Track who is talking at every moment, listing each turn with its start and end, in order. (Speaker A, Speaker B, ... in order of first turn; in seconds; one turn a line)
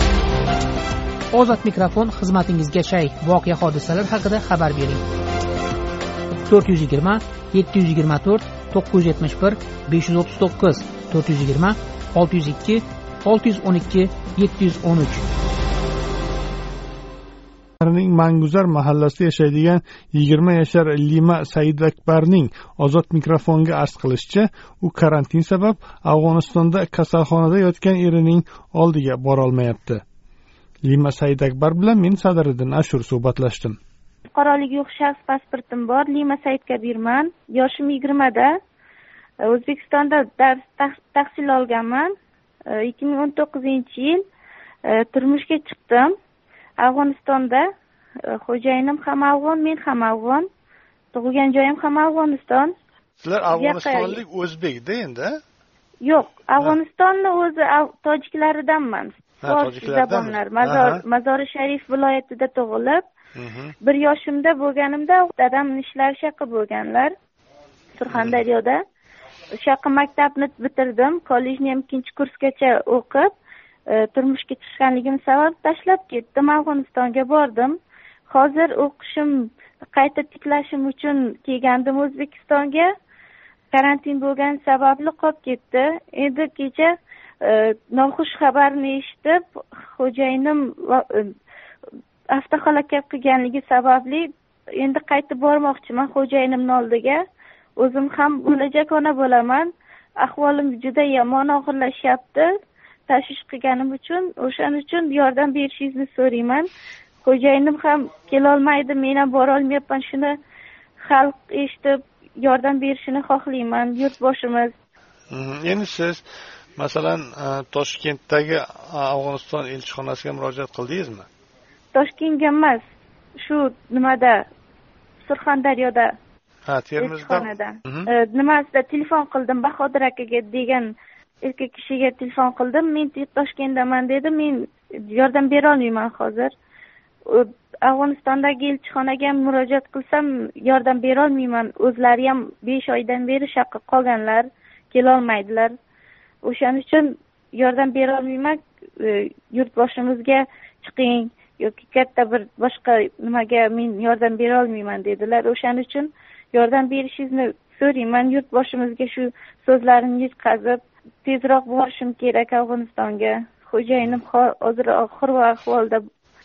Speaker A: 1.3-5.0
Speaker A: 6.5-15.2
Speaker B: 17.8-30.0
Speaker B: 30.9-33.8
Speaker C: 34.3-38.5
Speaker C: 39.5-42.1
Speaker C: 42.7-44.2
Speaker C: 44.9-46.1
Speaker C: 46.8-47.6
Speaker C: 48.3-50.5
Speaker C: 51.1-52.7
Speaker B: 53.2-55.4
Speaker C: 53.5-54.2
Speaker C: 56.0-63.0
Speaker B: 59.4-61.0
Speaker B: 63.4-63.8
Speaker C: 63.8-67.1
Speaker C: 68.0-68.8
Speaker B: 68.1-68.4
Speaker C: 69.6-73.3
Speaker C: 73.9-77.8
Speaker C: 78.3-82.9
Speaker C: 83.7-86.9
Speaker C: 87.4-89.4
Speaker C: 89.9-91.2
Speaker C: 92.3-97.2
Speaker C: 97.8-99.7
Speaker C: 100.2-102.5
Speaker C: 103.1-106.7
Speaker C: 107.2-110.3
Speaker C: 111.0-114.7
Speaker B: 115.3-116.2
Speaker B: 116.8-121.3
Speaker C: 121.9-122.8
Speaker C: 123.4-124.4
Speaker C: 125.2-126.1
Speaker B: 126.7-128.1
Speaker C: 127.0-130.9
Speaker C: 131.4-136.5
Speaker C: 137.3-145.7
Speaker C: 146.4-166.0